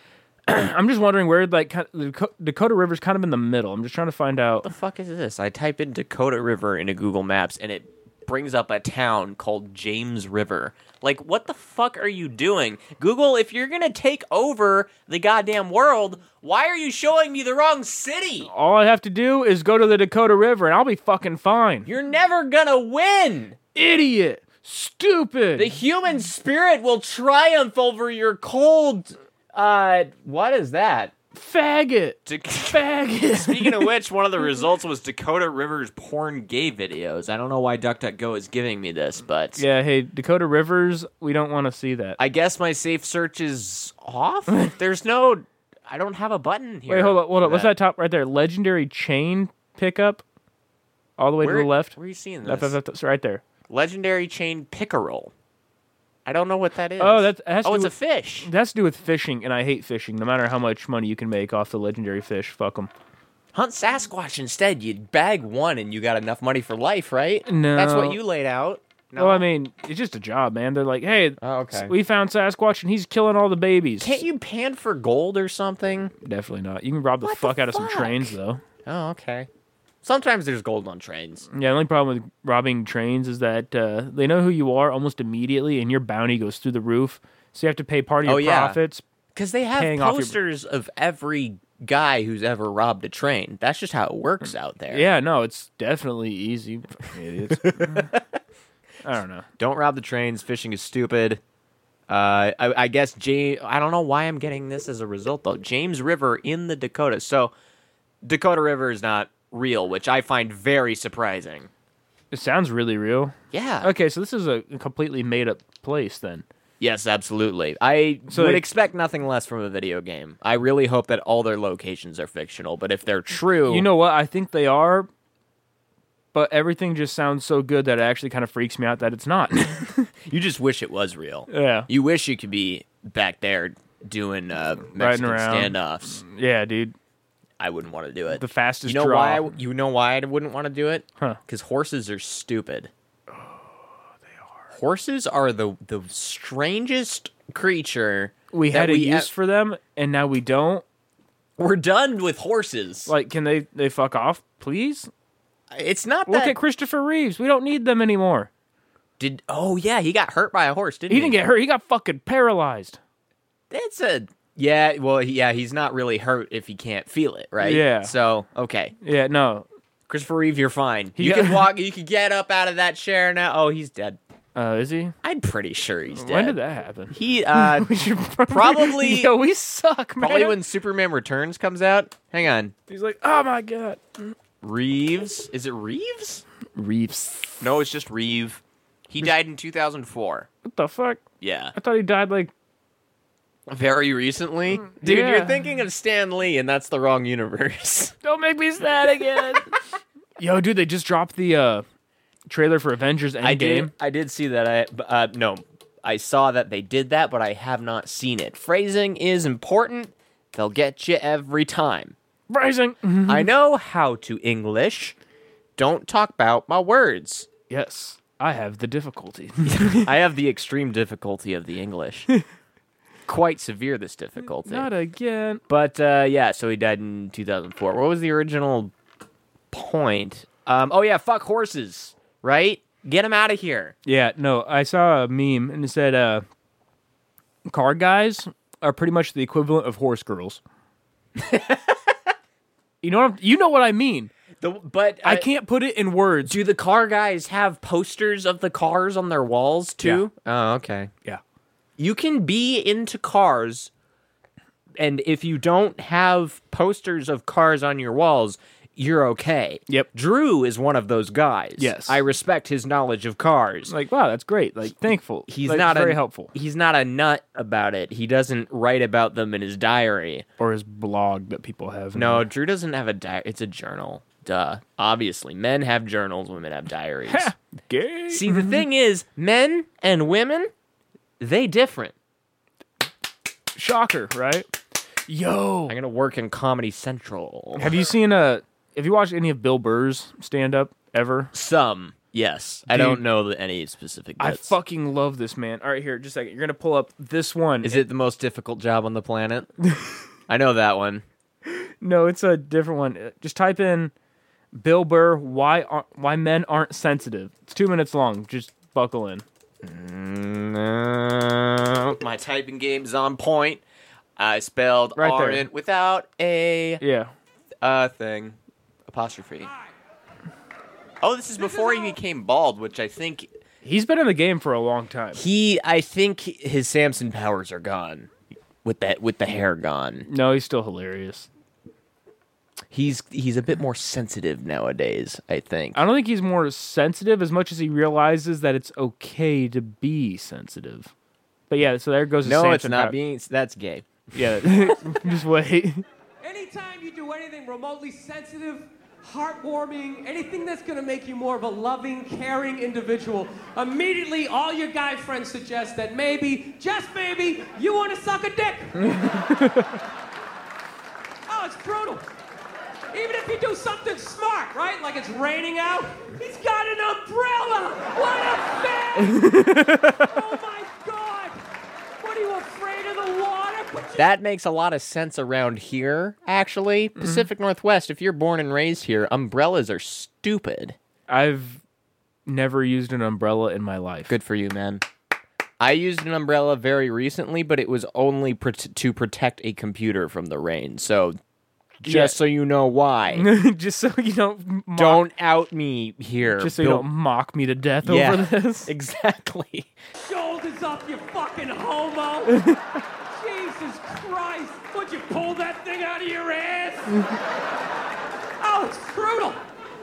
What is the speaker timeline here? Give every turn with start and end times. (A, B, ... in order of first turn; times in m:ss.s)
0:00.5-0:04.7 A
0:04.6-0:18.5 B
0:18.4-0:21.9 A
0:21.8-0:23.6 B
0:23.7-0:25.7 A
0:25.5-0:31.1 B
0:31.3-0:32.2 A
0:32.2-0:39.6 B
0:32.7-0:33.9 A
0:39.6-0:42.2 A
0:42.2-0:47.7 B
0:46.9-0:50.2 A
0:51.2-0:53.4 A
0:51.4-0:52.8 B
0:53.7-0:55.3 B
0:56.2-0:58.5 B
0:57.0-1:02.9 A
1:03.5-1:09.5 B
1:07.5-1:08.2 A
1:09.2-1:14.2 A
1:11.4-1:11.9 B
1:14.0-1:16.1 B
1:16.2-1:18.6 A
1:17.2-1:19.5 B
1:20.0-1:21.5 B
1:21.5-1:29.0 A
1:28.2-1:28.8 B
1:29.3-1:35.1 B
1:29.8-1:30.4 A
1:34.9-1:38.1 A
1:37.5-1:38.2 B
1:39.0-1:39.4 A
1:39.6-1:41.4 B
1:42.1-1:47.5 B
1:48.2-1:51.7 B
1:52.3-1:56.4 A
1:53.5-1:53.9 B
1:56.8-2:03.9 B
1:58.3-1:58.6 A
2:03.7-2:05.1 A
2:06.3-2:10.1 A
2:10.2-2:16.2 B
2:11.5-2:11.9 A
2:14.9-2:16.9 A
2:17.6-2:22.9 B
2:18.3-2:19.5 A
2:24.7-2:29.3 B
2:28.5-2:30.8 A
2:31.6-2:33.1 B
2:33.1-2:35.1 A
2:35.7-2:36.6 B
2:36.3-2:38.5 A
2:39.2-2:41.4 B
2:41.1-2:43.0 A
2:43.7-2:48.9 B
2:47.6-2:48.1 A
2:49.0-2:49.6 A
2:50.1-2:54.2 B
2:51.2-2:51.6 A
2:54.5-2:55.1 A
2:55.2-2:56.6 B
2:56.1-3:00.6 A
2:57.1-2:57.9 B
2:58.5-2:59.3 B
3:00.2-3:02.7 B
3:02.9-3:04.3 A
3:04.6-3:06.4 B
3:06.8-3:07.6 A
3:07.6-3:10.5 B
3:10.6-3:11.2 A
3:11.4-3:11.7 B
3:11.7-3:12.5 A
3:13.7-3:18.2 B
3:14.9-3:15.6 A
3:18.2-3:19.7 A
3:19.1-3:19.7 B
3:20.4-3:21.8 A
3:22.5-3:23.9 A
3:23.4-3:32.2 B
3:32.5-3:33.5 A
3:33.3-3:35.1 B
3:35.8-3:37.5 B
3:37.7-3:40.1 A
3:39.6-3:42.3 B
3:43.3-3:44.9 B
3:44.6-3:45.6 A
3:45.7-3:48.9 B
3:49.7-3:53.9 B
3:54.0-3:56.4 A
3:57.7-4:00.6 A
4:01.4-4:02.1 B
4:03.0-4:04.3 A
4:04.6-4:05.5 B
4:05.2-4:06.6 A
4:06.4-4:11.1 B
4:12.0-4:13.9 B
4:15.0-4:23.9 B
4:21.8-4:22.2 A
4:23.9-4:26.5 A
4:25.5-4:30.4 B
4:30.6-4:32.4 A
4:32.1-4:37.5 B
4:37.3-4:38.8 A
4:38.3-4:40.7 B
4:41.4-4:42.1 B
4:43.8-4:44.7 A
4:45.3-4:45.9 A
4:45.9-4:48.0 B
4:47.8-4:51.5 A
4:51.5-4:54.8 B
4:52.9-4:53.2 A
4:54.4-4:58.0 A
4:57.8-4:59.7 B
5:00.5-5:01.2 B
5:01.7-5:04.1 A
5:04.7-5:09.4 A
5:09.8-5:13.8 B
5:14.4-5:17.0 B
5:15.2-5:15.6 A
5:17.0-5:17.3 A
5:17.8-5:18.6 B
5:19.1-5:19.7 B
5:21.2-5:23.5 B
5:23.8-5:25.4 A
5:25.3-5:28.3 B
5:28.8-5:30.3 B
5:30.3-5:31.5 A
5:32.9-5:36.0 B
5:35.9-5:41.1 A
5:41.7-5:43.2 A
5:42.4-5:45.1 B
5:44.3-5:46.0 A
5:46.4-5:59.3 C
5:59.2-5:59.9 A
6:01.5-6:02.2 C
6:03.1-6:11.6 C
6:09.2-6:10.3 A
6:12.2-6:14.3 C
6:14.2-6:21.0 B
6:17.2-6:17.4 A
6:21.3-6:21.8 A
6:22.4-6:24.3 A
6:24.3-6:25.0 B
6:25.8-6:31.4 B
6:32.0-6:33.5 B
6:32.0-6:32.4 A
6:33.3-6:35.2 A
6:34.9-6:37.1 B
6:36.6-6:38.9 A
6:38.0-6:39.9 B
6:40.2-6:42.6 C
6:42.5-6:42.8 A
6:43.3-6:47.2 C
6:48.6-6:49.6 C